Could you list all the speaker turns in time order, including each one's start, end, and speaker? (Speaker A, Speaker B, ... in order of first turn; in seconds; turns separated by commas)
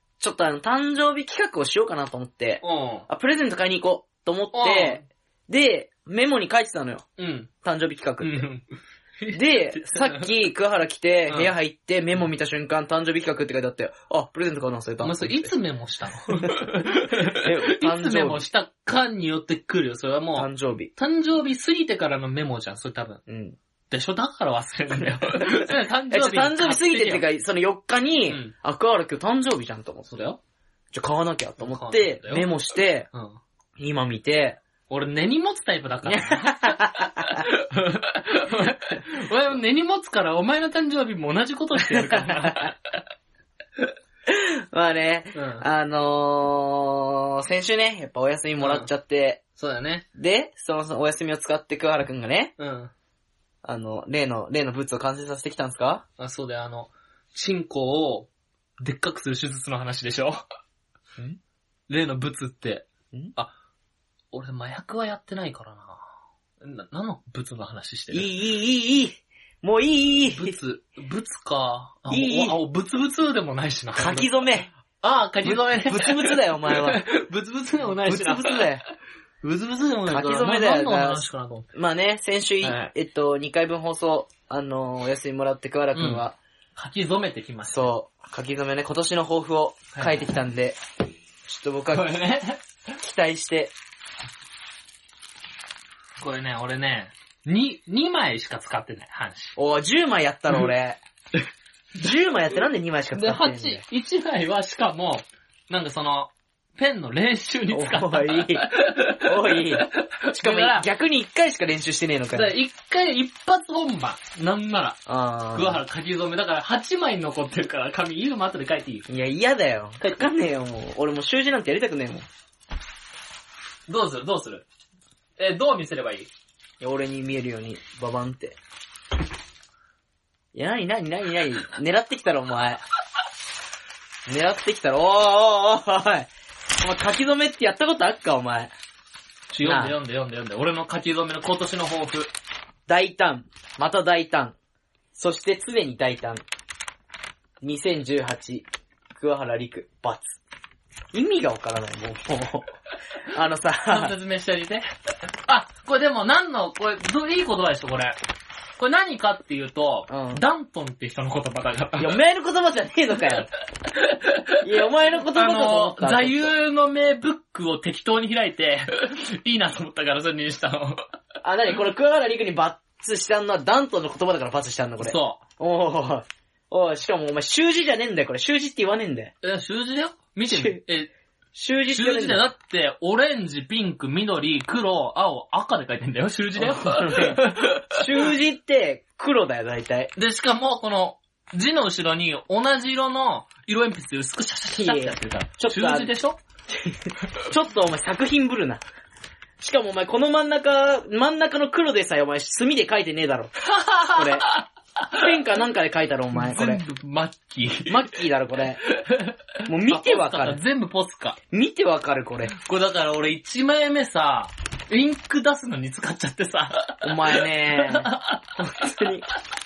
Speaker A: 0.2-7.0, Speaker B: 2.6-3.0, Speaker B: 4.5-5.0, Speaker B: 7.2-7.5, Speaker A: 7.6-8.4, Speaker B: 8.2-8.7, Speaker B: 9.2-10.3, Speaker A: 9.3-15.5, Speaker B: 15.0-23.2, Speaker A: 17.2-18.4, Speaker A: 20.3-20.9, Speaker A: 23.3-23.6, Speaker B: 23.9-27.2, Speaker A: 25.4-30.1, Speaker B: 30.1-30.4, Speaker A: 30.9-33.1, Speaker B: 31.6-32.5, Speaker B: 33.1-33.4, Speaker A: 33.8-34.6, Speaker B: 34.9-42.7, Speaker A: 36.0-37.5, Speaker A: 41.9-42.7, Speaker A: 44.3-49.4, Speaker B: 45.3-45.6, Speaker B: 48.6-48.9, Speaker B: 49.5-50.0, Speaker A: 50.1-52.5, Speaker B: 52.6-52.9, Speaker A: 53.6-56.0, Speaker B: 56.2-60.4, Speaker B: 61.9-63.5, Speaker B: 64.3-66.1, Speaker B: 66.6-68.3, Speaker A: 68.1-70.5, Speaker B: 70.3-74.3, Speaker A: 72.1-72.6, Speaker A: 73.9-74.7, Speaker B: 75.0-78.9, Speaker A: 75.4-77.0, Speaker A: 78.0-78.8, Speaker B: 79.4-81.7, Speaker A: 80.1-81.2, Speaker A: 81.7-86.3, Speaker B: 82.6-82.9, Speaker B: 85.9-86.2, Speaker B: 86.7-87.9, Speaker A: 87.7-90.8, Speaker A: 91.5-92.2, Speaker B: 91.9-92.6, Speaker A: 92.9-93.7, Speaker B: 96.2-99.5, Speaker A: 99.5-101.0, Speaker A: 102.0-103.8, Speaker B: 103.1-110.9, Speaker A: 107.7-112.5, Speaker B: 112.3-115.0, Speaker A: 115.1-115.8, Speaker B: 115.5-119.1, Speaker A: 119.1-122.3, Speaker B: 120.0-120.2, Speaker B: 123.9-124.6, Speaker B: 125.4-126.3, Speaker A: 126.8-128.6, Speaker A: 130.5-132.8, Speaker A: 134.3-136.3, Speaker A: 136.8-138.7, Speaker B: 139.5-142.3, Speaker A: 139.6-140.0, Speaker A: 142.9-144.5, Speaker A: 145.1-146.4, Speaker A: 147.6-150.4, Speaker A: 151.1-152.7, Speaker A: 153.3-154.1, Speaker B: 153.9-154.8, Speaker B: 155.4-158.2, Speaker B: 158.8-162.2, Speaker A: 160.1-160.4, Speaker A: 162.0-163.5, Speaker B: 163.9-164.7, Speaker A: 164.6-166.5, Speaker B: 165.3-171.0, Speaker A: 171.4-179.3, Speaker B: 175.0-175.4, Speaker B: 179.4-181.1, Speaker A: 180.5-180.8, Speaker A: 181.5-182.4, Speaker B: 181.9-188.3, Speaker A: 186.6-190.1, Speaker B: 190.2-196.4, Speaker A: 194.7-196.1, Speaker A: 196.7-198.8, Speaker A: 199.6-203.5, Speaker B: 203.6-205.3, Speaker A: 204.1-204.5, Speaker A: 205.1-206.8, Speaker B: 206.3-208.1, Speaker A: 207.9-208.8, Speaker B: 208.8-211.4, Speaker A: 209.7-210.6, Speaker A: 211.5-212.5, Speaker B: 212.5-219.1, Speaker A: 217.0-219.3